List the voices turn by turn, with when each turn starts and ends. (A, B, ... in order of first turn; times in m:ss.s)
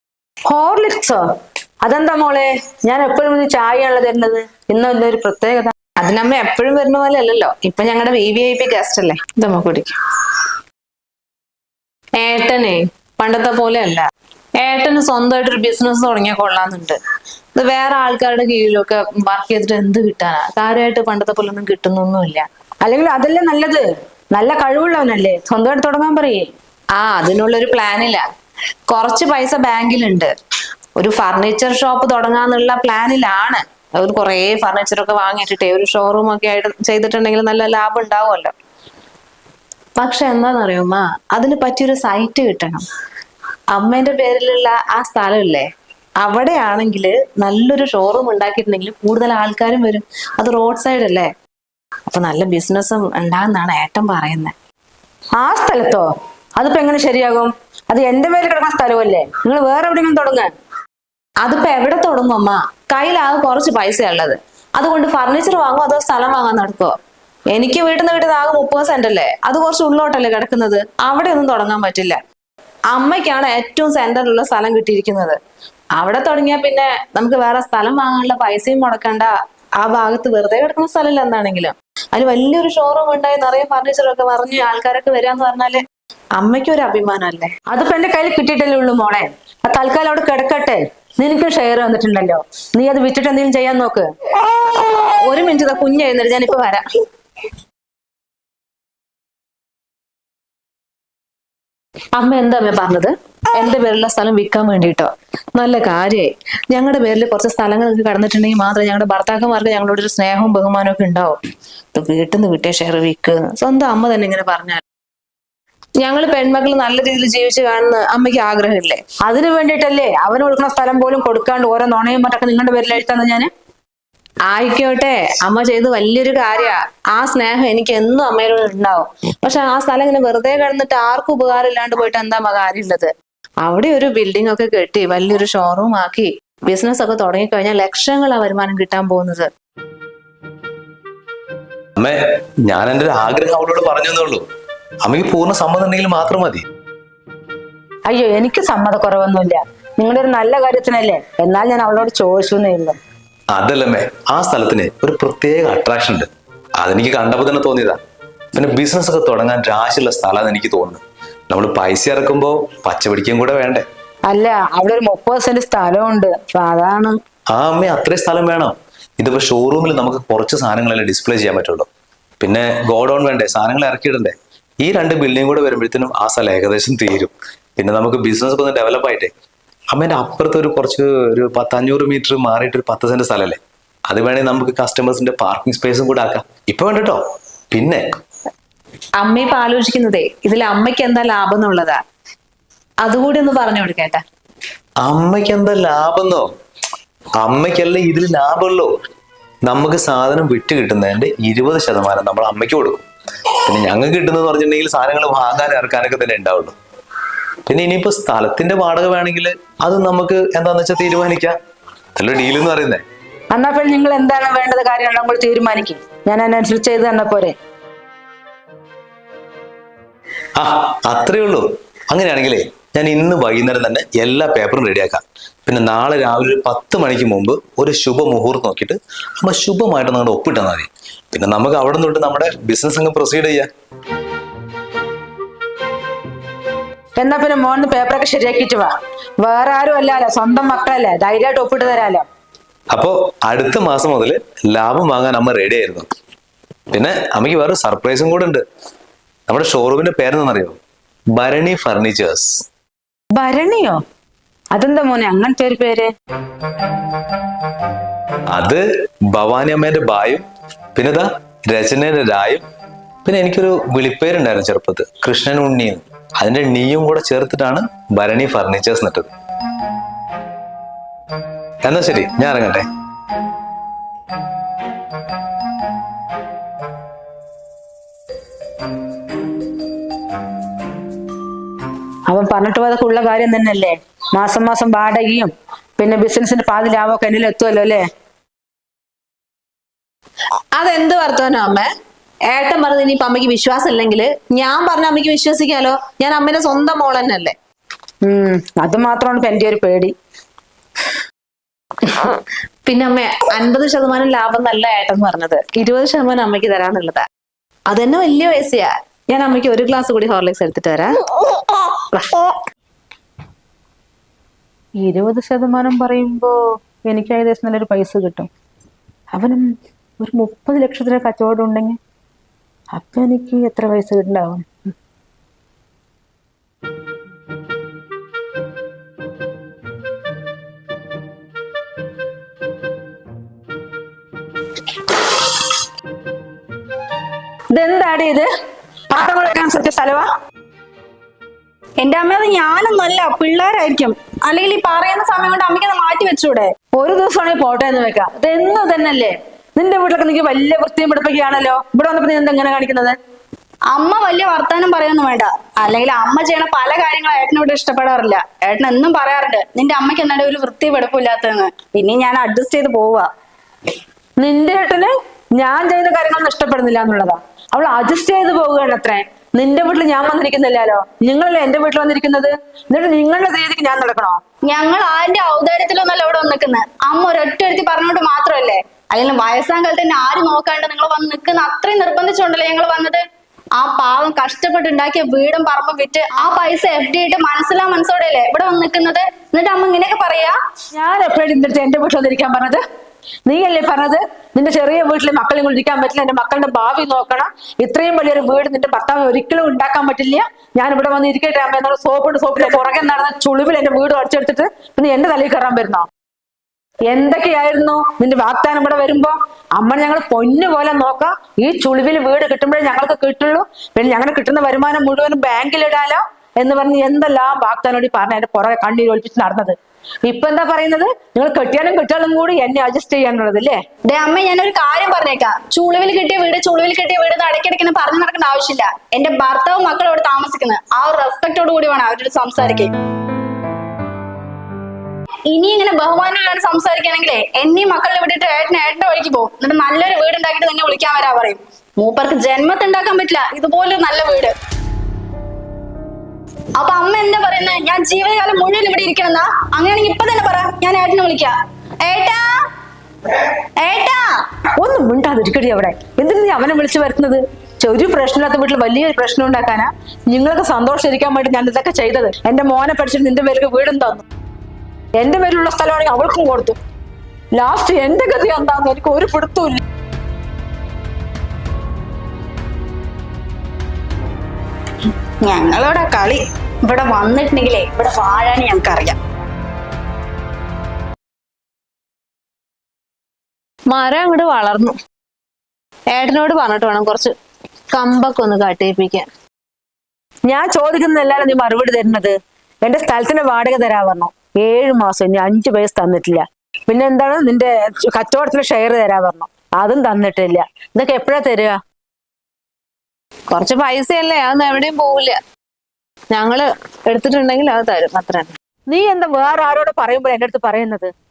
0:00.4-0:01.2 A
0:01.8-0:05.7 A
0:06.0-0:10.0 B
0:12.2-0:14.0 B
0:14.6-0:17.0 B
0:17.6-0:22.4 B
0:22.8-0:26.5 A
0:27.0-0:28.2 B
0:28.9-0:30.3 B
0:31.0-0:38.5 B
0:40.0-0:42.8 B
0:43.7-0:45.7 B
0:46.2-0:51.3 B
0:52.1-0:54.5 B
0:55.4-1:00.5 A
1:01.4-1:06.9 B
1:07.5-1:12.2 B
1:12.9-1:15.4 B
1:16.0-1:25.8 B
1:26.4-1:27.5 B
1:27.7-1:34.1 A
1:35.2-1:36.8 B
1:42.2-1:51.4 B
1:51.9-1:54.8 B
1:56.0-1:59.0 B
1:59.2-2:03.5 A
2:04.5-2:13.1 B
2:13.6-2:19.5 B
2:22.0-2:24.4 C
2:25.0-2:26.6 C
2:28.1-2:33.0 A
2:33.5-2:38.0 C
2:38.5-2:43.8 C
2:44.3-2:47.2 A
2:47.5-2:51.9 C
2:52.4-2:59.3 C
2:59.9-3:08.0 C
3:09.2-3:12.0 B
3:13.0-3:14.2 B
3:15.0-3:16.4 C
3:17.4-3:18.9 C
3:19.7-3:23.0 C
3:23.6-3:26.7 C
3:27.7-3:31.5 C
3:32.1-3:33.0 C
3:33.5-3:37.6 A
3:40.6-3:53.7 C
3:57.2-4:02.2 A
4:02.9-4:06.1 C
4:06.9-4:08.6 C
4:09.5-4:10.8 C
4:11.4-4:12.6 C
4:13.3-4:14.0 A
4:14.7-4:16.1 A
4:18.5-4:22.6 C
4:23.2-4:29.3 C
4:31.8-4:32.8 C
4:42.3-4:48.0 A
4:50.7-4:51.9 B
4:52.5-4:57.5 B
4:58.2-5:00.1 A
5:02.1-5:07.2 B
5:07.9-5:11.1 B
5:12.1-5:12.5 B
5:15.0-5:18.5 A
5:19.3-5:22.0 A
5:22.9-5:24.8 A
5:37.7-5:38.5 A
5:39.1-5:40.3 A
5:42.0-5:46.7 D
5:47.0-5:53.2 A
5:53.9-6:03.3 D
6:04.4-6:14.4 A
6:14.7-6:23.2 D
6:23.8-6:30.6 D
6:30.9-6:32.8 A
6:33.4-6:46.1 A
6:47.0-7:03.8 A
7:04.0-7:12.9 D
7:15.5-7:24.6 D
7:26.8-7:32.5 D
7:33.8-7:34.4 D
7:34.8-7:44.2 A
7:45.2-7:46.8 A
7:47.5-7:49.8 A
7:55.4-7:59.2 D
8:03.9-8:04.9 B
8:06.1-8:07.3 B
8:07.9-8:09.2 B
8:10.5-8:21.8 A
8:23.5-8:25.4 B
8:26.3-8:28.5 B
8:28.9-8:31.1 A